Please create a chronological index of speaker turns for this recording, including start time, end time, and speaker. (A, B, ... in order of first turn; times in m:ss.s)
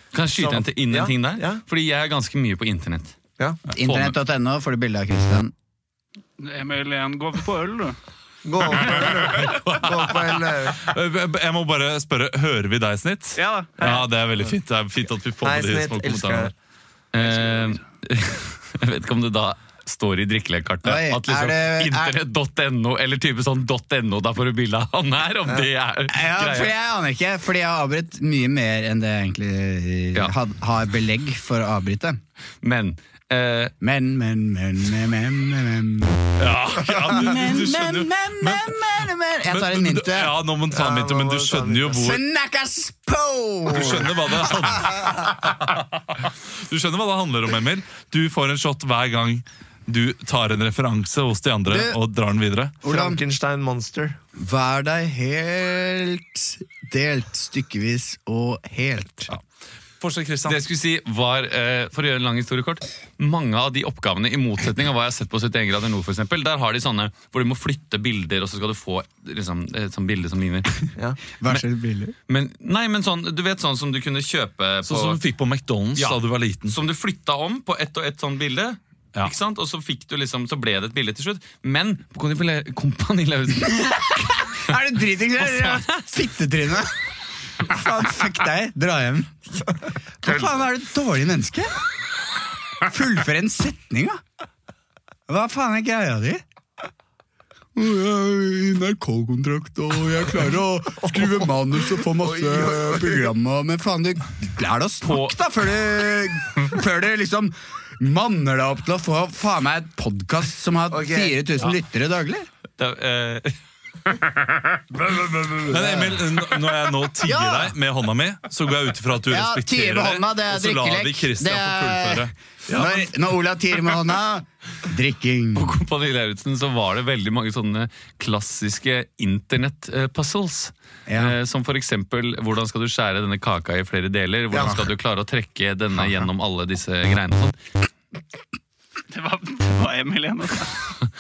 0:00.1-0:03.2 A
0:00.3-0:01.6 B
0:03.7-0:04.2 A
0:03.7-0:05.5 C
0:06.4-0:08.0 D
0:08.4-0:10.9 B
0:08.9-0:09.6 E
0:10.8-0:16.5 E
0:13.4-0:13.9 D
0:15.4-0:16.5 B
0:17.1-0:26.7 A
0:20.8-0:22.2 C
0:26.1-0:32.2 C
0:32.6-0:33.7 A
0:33.8-0:36.2 C
0:36.4-0:38.9 E
0:36.8-0:40.4 C
0:39.4-0:42.2 E
0:40.7-0:42.1 B
0:42.0-0:45.1 C
0:43.7-0:52.8 E
0:51.7-0:52.0 C
0:52.8-0:53.2 C
0:52.8-0:54.2 B
0:54.4-0:59.3 C
1:00.0-1:00.6 E
1:00.4-1:10.8 A
1:11.0-1:11.2 B
1:11.4-1:12.2 C
1:12.3-1:15.2 A
1:14.8-1:16.8 E
1:16.0-1:24.3 A
1:23.7-1:27.0 C
1:25.4-1:25.9 A
1:27.6-1:29.3 C
1:30.2-1:31.8 C
1:32.8-1:34.2 C
1:35.3-1:36.4 C
1:37.8-1:52.5 C
1:41.0-1:41.5 B
1:42.2-1:43.3 B
1:45.0-1:45.3 A
1:50.9-1:51.4 B
1:52.8-1:53.6 A
1:55.0-1:56.2 C
1:55.7-2:03.1 E
1:57.2-1:57.8 C
1:59.3-2:05.8 C
2:05.6-2:17.6 A
2:11.1-2:11.4 C
2:14.5-2:14.8 B
2:19.1-2:20.7 D